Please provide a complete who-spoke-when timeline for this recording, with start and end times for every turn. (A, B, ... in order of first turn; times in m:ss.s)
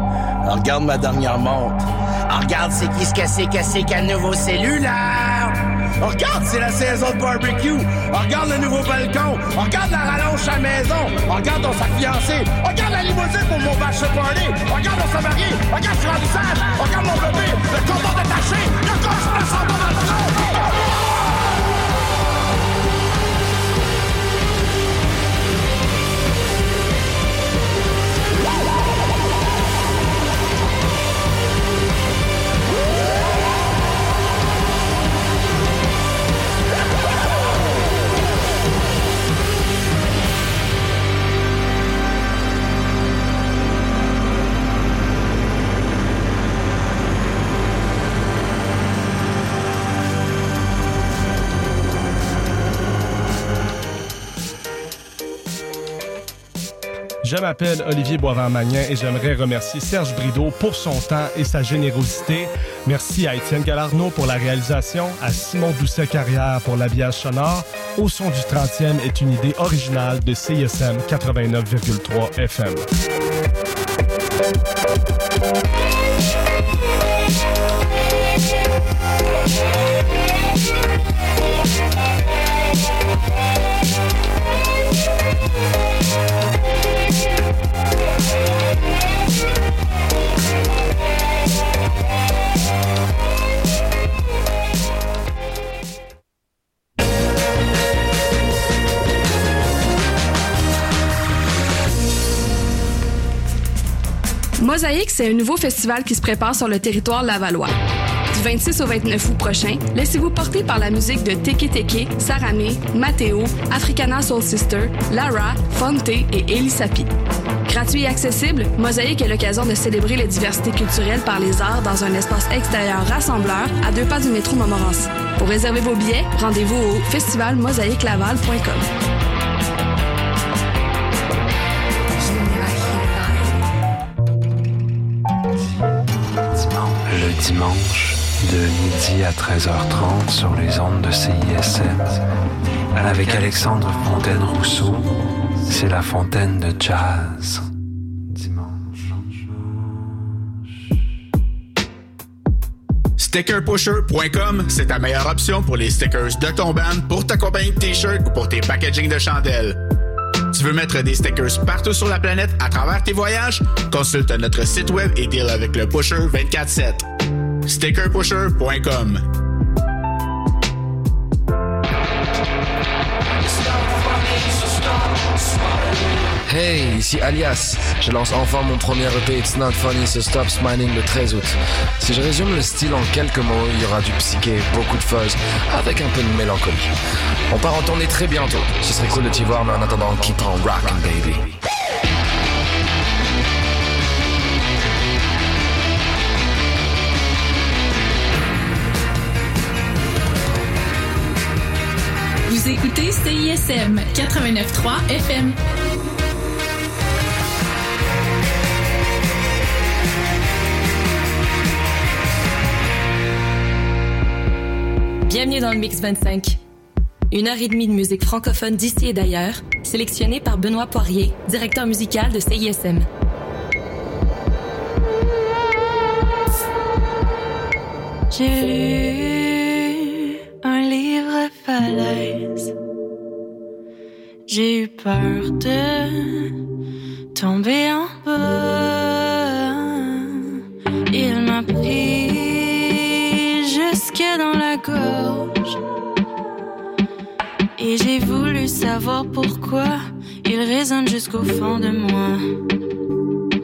0:00.5-0:20.6 A
0:57.2-1:12.8 B
1:44.6-1:47.7 C
1:48.3-1:57.1 C
1:57.7-2:08.8 C
2:12.3-2:13.4 C
2:16.5-2:22.2 D
2:22.9-2:27.6 D
2:28.3-2:29.4 D
2:33.2-2:39.8 E
2:40.5-2:47.1 E
2:47.7-2:49.2 E
2:53.4-2:55.7 A
2:56.5-3:06.9 F
3:07.5-3:11.6 F
3:22.5-3:25.6 G
3:35.3-3:36.6 H
3:37.3-3:43.1 H
3:48.3-3:52.6 I
3:54.5-3:56.5 I
3:57.4-4:00.6 I
4:01.1-4:05.8 I
4:07.8-4:12.4 I